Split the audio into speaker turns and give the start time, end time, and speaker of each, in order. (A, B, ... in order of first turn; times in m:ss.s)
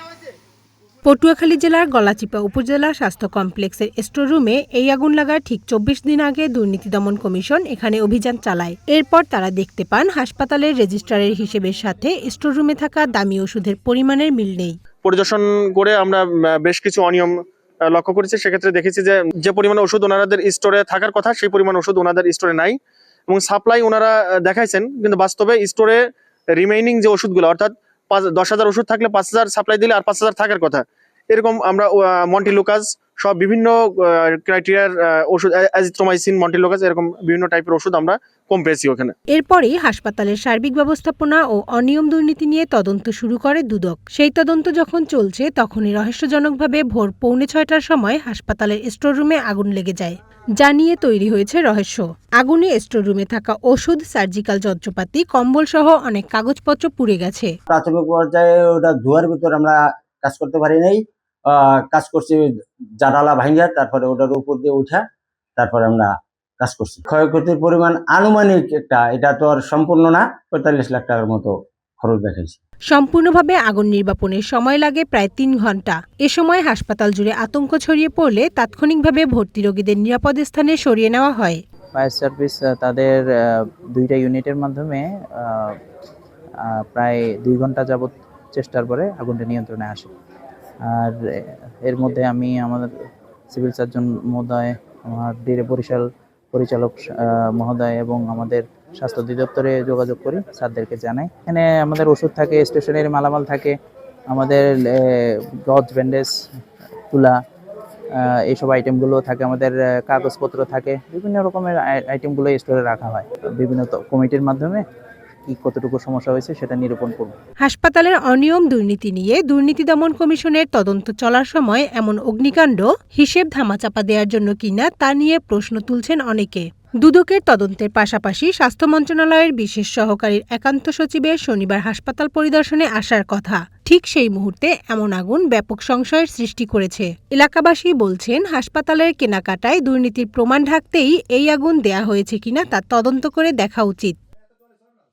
0:01.0-0:14.8 A
0:15.0-0:39.2 B
0:39.3-0:57.5 A
0:57.7-1:02.5 C
1:03.0-1:05.0 C
1:05.6-1:12.6 C
1:12.9-1:21.6 A
1:21.9-1:25.8 D
1:26.6-1:30.1 D
1:30.8-1:32.9 D
1:33.5-1:43.8 D
1:44.3-1:46.4 D
1:47.1-1:47.4 D
1:48.2-1:54.8 D
1:55.5-1:57.3 D
1:57.6-2:24.2 A